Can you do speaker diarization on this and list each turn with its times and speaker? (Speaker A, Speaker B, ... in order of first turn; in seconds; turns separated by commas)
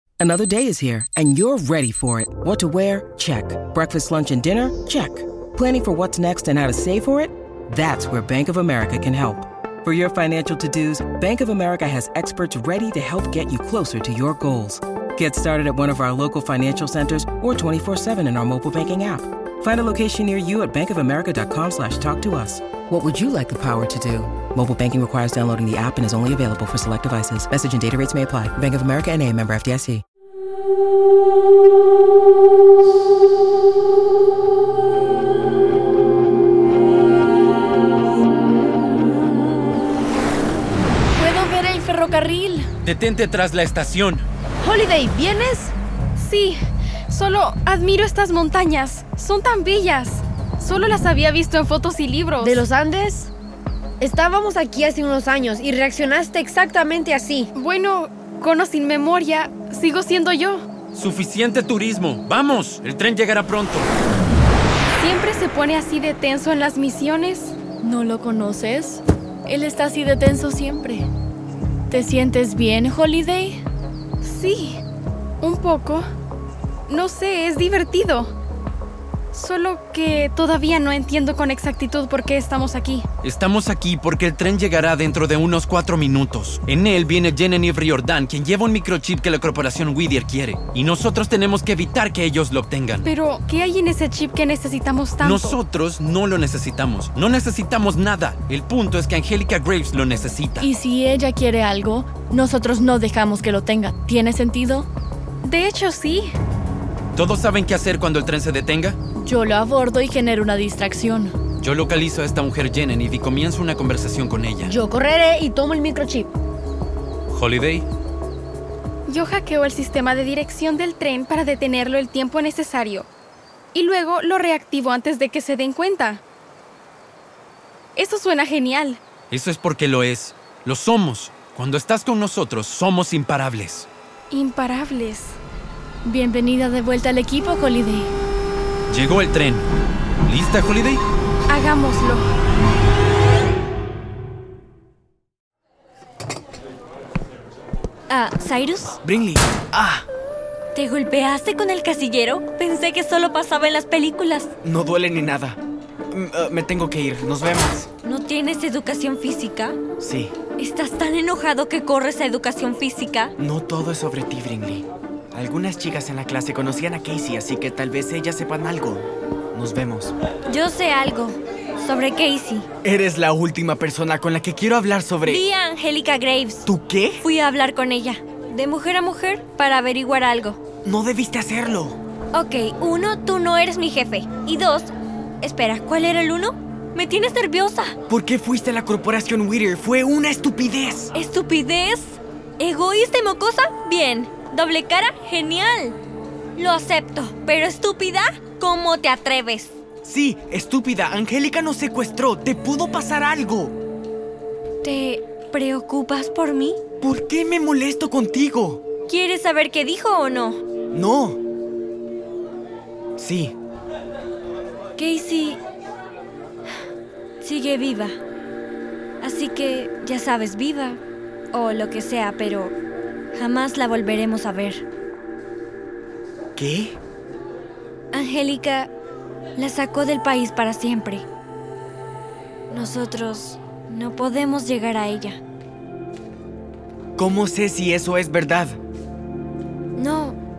Speaker A: 0.2-30.0, Speaker B: 41.1-42.7, Speaker C: 42.8-44.2, Speaker D: 44.6-45.7, Speaker E: 46.2-46.6, Speaker E: 47.1-52.6, Speaker D: 52.4-53.3, Speaker D: 54.0-57.5, Speaker E: 57.5-60.6, Speaker C: 60.9-63.9, Speaker E: 65.0-67.6, Speaker B: 67.8-71.1, Speaker B: 71.9-73.6, Speaker E: 74.2-74.8, Speaker E: 75.4-76.0, Speaker E: 76.9-78.3, Speaker E: 79.3-83.0, Speaker C: 83.2-93.1, Speaker E: 93.0-95.6, Speaker C: 95.2-100.7, Speaker B: 100.6-104.9, Speaker E: 105.4-106.3, Speaker C: 107.2-109.0, Speaker B: 109.2-111.4, Speaker C: 111.6-114.7, Speaker D: 114.6-116.3, Speaker C: 117.3-117.9, Speaker E: 119.1-123.1, Speaker E: 123.7-126.2, Speaker E: 128.0-129.0, Speaker C: 129.3-133.9, Speaker E: 134.3-135.4, Speaker B: 136.1-138.1, Speaker C: 138.9-139.7, Speaker C: 140.2-141.0, Speaker E: 141.5-142.2, Speaker F: 148.1-149.0, Speaker G: 149.0-150.1, Speaker F: 150.8-154.5, Speaker G: 154.6-155.6, Speaker G: 156.1-157.9, Speaker F: 158.0-159.8, Speaker G: 160.0-160.3, Speaker F: 160.6-163.3, Speaker G: 163.4-170.1, Speaker F: 170.5-172.7, Speaker G: 172.8-175.4, Speaker F: 175.3-176.7, Speaker G: 176.7-177.2, Speaker F: 177.2-180.6, Speaker G: 180.8-182.0, Speaker F: 182.3-184.9, Speaker F: 185.4-187.9, Speaker G: 188.1-191.1, Speaker F: 191.1-196.0, Speaker F: 196.6-199.8, Speaker G: 200.0-203.7, Speaker F: 204.8-206.8, Speaker G: 207.0-208.8, Speaker F: 209.1-210.6, Speaker G: 210.9-211.4, Speaker G: 213.2-213.5, Speaker F: 215.0-215.6, Speaker F: 217.4-218.2, Speaker F: 219.2-221.0, Speaker F: 221.5-222.8, Speaker F: 223.3-224.8, Speaker G: 226.6-226.9, Speaker F: 228.1-228.9, Speaker F: 229.6-231.2, Speaker F: 232.7-235.4, Speaker G: 237.2-238.8, Speaker F: 240.0-240.4